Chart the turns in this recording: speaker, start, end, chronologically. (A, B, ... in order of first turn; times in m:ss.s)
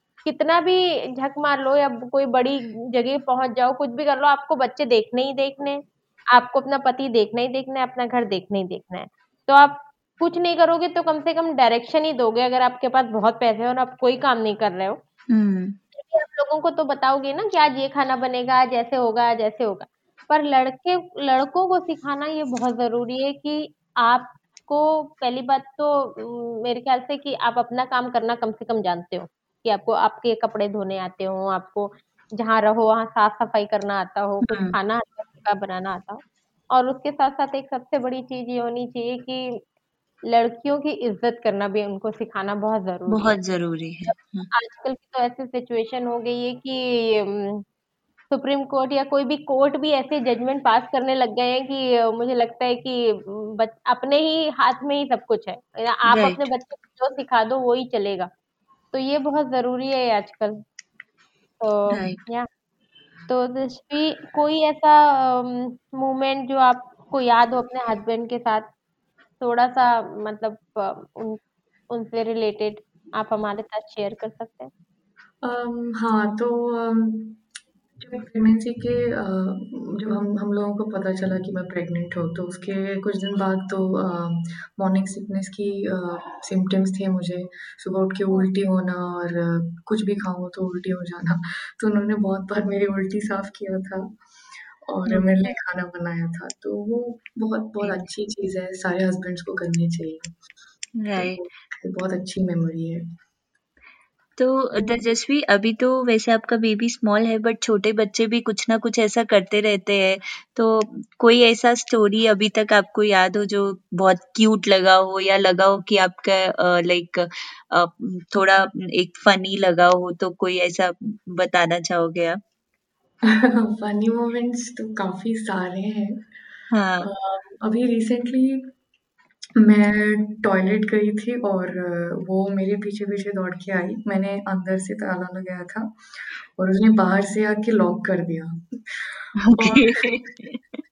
0:00.2-0:05.8 A
0:06.3-0:15.0 A
0:15.3-0:15.8 B
0:15.9-0:39.6 A
0:34.4-0:34.8 B
0:40.3-0:43.4 A
0:43.1-0:44.5 B
0:44.5-0:47.6 A
0:48.3-0:58.3 A
0:56.1-0:56.4 B
0:58.9-1:00.6 A
1:01.6-1:02.5 A
1:01.9-1:02.2 B
1:03.3-1:08.7 A
1:09.4-1:14.7 A
1:15.4-1:17.4 C
1:18.0-1:34.2 C
1:34.9-1:40.3 C
1:41.0-1:41.4 B
1:41.1-1:43.0 C
1:44.4-2:02.4 B
2:03.2-2:06.2 C
2:06.7-2:07.1 B
2:07.0-2:08.7 C
2:09.6-2:15.9 C
2:16.6-2:20.2 C
2:19.4-2:20.6 B